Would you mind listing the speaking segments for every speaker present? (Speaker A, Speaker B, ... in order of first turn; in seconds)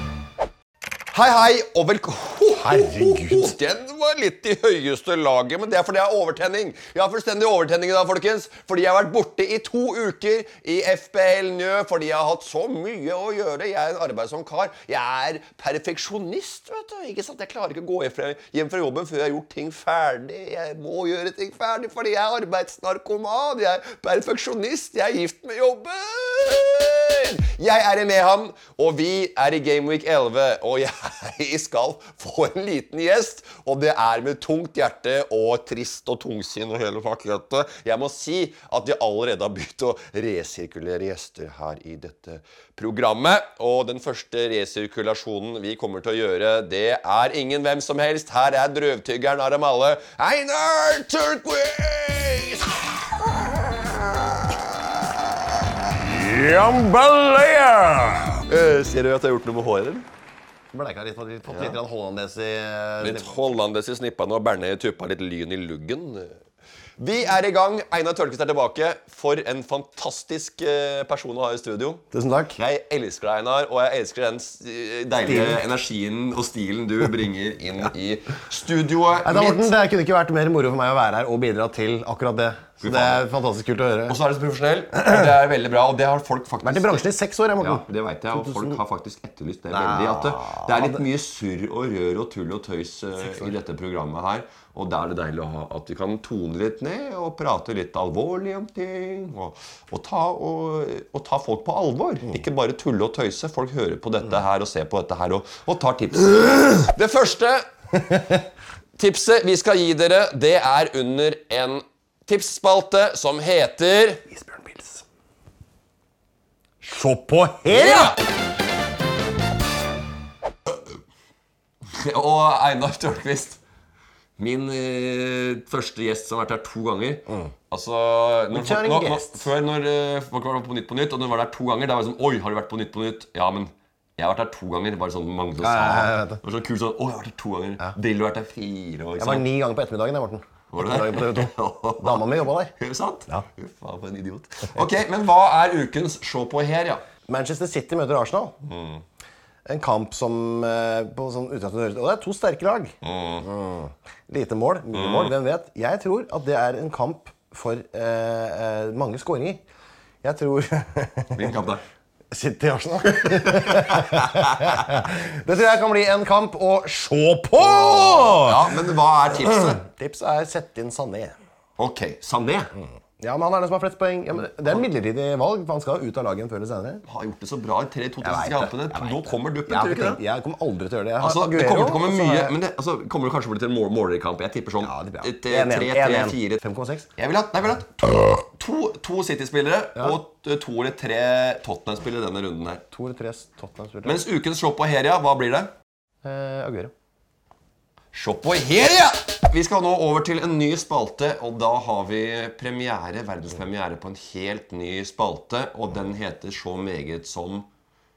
Speaker A: 1.1-54.6, 56.0-57.5, 58.2-60.0, 61.5-61.8, 63.0-66.4, 67.0-79.7, 82.8-83.2, 84.1-107.7, 109.0-114.2, 117.7-118.2, 121.9-123.6, 124.4-139.4, 140.7-147.0, 148.6-149.0, 153.0-153.5, 154.9-155.3, 161.3-161.8, 163.2-164.8, 167.6-169.8, 171.8-172.7, 174.6-174.8, 177.0-180.2, 181.2-186.6, 187.2-192.8, 194.0-195.7, 198.1-207.7
Speaker B: 2.6-3.5, 56.8-58.2, 60.7-63.4, 72.1-72.6, 75.2-75.6, 79.2-84.2, 86.6-88.8, 89.7-90.8, 114.3-115.0, 116.8-118.1, 128.5-129.5, 135.6-136.4, 139.2-142.7, 147.3-148.6, 149.7-159.6, 160.2-161.5, 162.3-168.7, 169.3-171.3, 173.2-177.0, 178.2-182.5, 184.8-187.1, 192.9-194.2, 196.2-196.9